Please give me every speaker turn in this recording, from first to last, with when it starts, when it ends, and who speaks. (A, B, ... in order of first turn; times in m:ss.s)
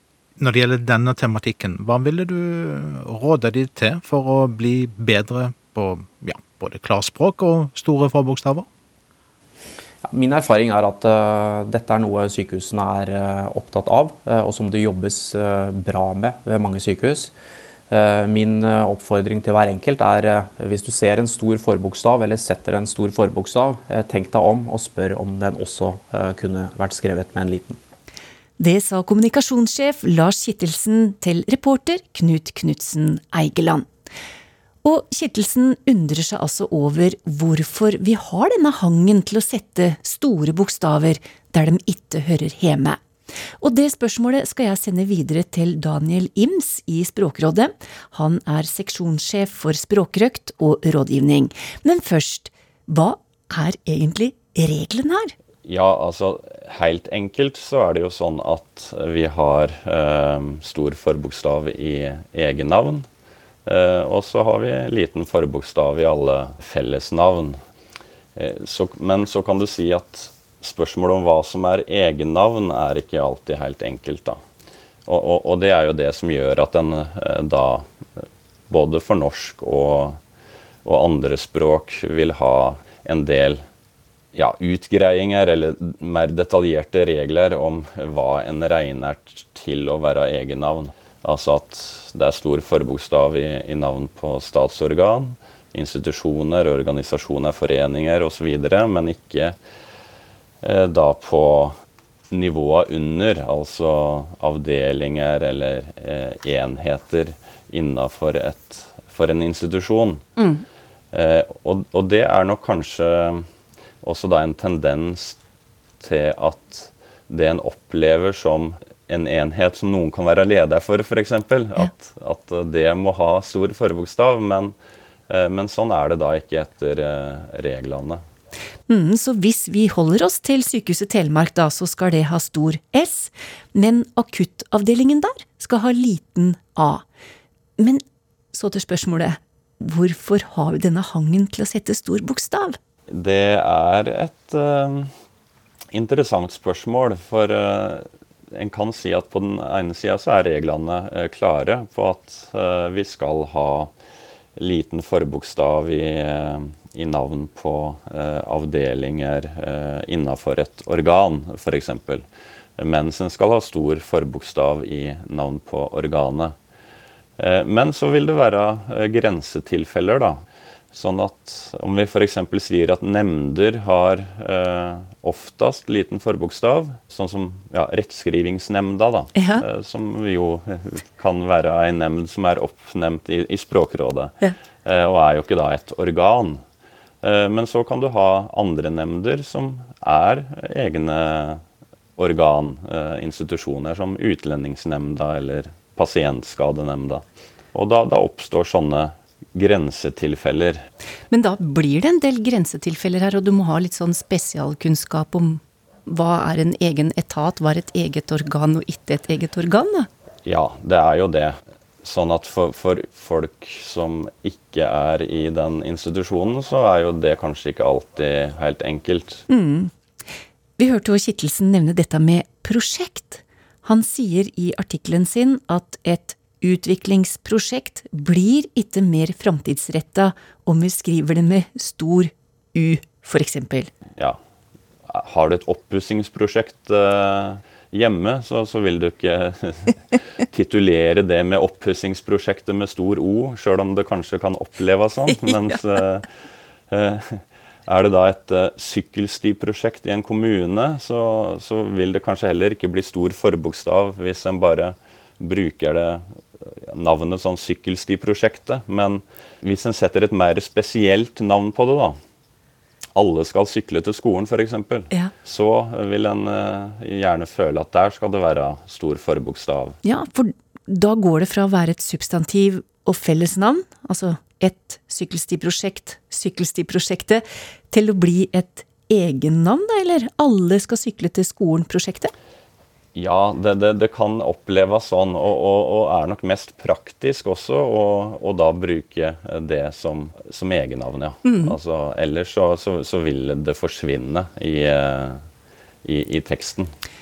0:00.4-0:08.6 A
0:10.0-0:17.3 B
0:17.9-0:27.8 B
0:28.6-0:33.9 C
0:34.8-0:43.0 C
0:43.6-0:55.3 C
0:55.6-1:03.0 D
1:03.6-1:07.6 D
1:08.4-1:14.4 D
1:15.1-1:17.9 D
1:18.7-1:20.2 D
1:20.8-1:23.6 D
1:24.3-1:39.6 D
1:40.6-1:41.7 D
1:42.3-1:50.3 D
1:50.4-1:50.6 C
1:51.1-1:53.4 D
1:54.0-1:55.4 D
1:56.0-2:04.7 D
2:05.3-2:08.2 D
2:08.9-2:17.0 C
2:17.8-2:22.8 C
2:23.1-2:25.1 D
2:25.9-2:33.9 D
2:34.6-2:42.2 D
2:42.8-2:46.5 D
2:47.4-2:50.4 D
2:50.9-3:06.6 D
2:59.4-2:59.6 C
3:07.2-3:11.6 D
3:12.2-3:20.8 D
3:21.3-3:30.1 C
3:30.4-3:39.4 D
3:39.5-3:39.9 C
3:40.8-3:53.9 C
3:55.1-4:06.3 D
4:05.3-4:05.8 C
4:06.9-4:22.2 D
4:23.1-4:30.0 D
4:30.0-4:42.3 C
4:43.1-4:55.4 D
4:51.4-4:51.7 C
4:56.0-4:56.9 D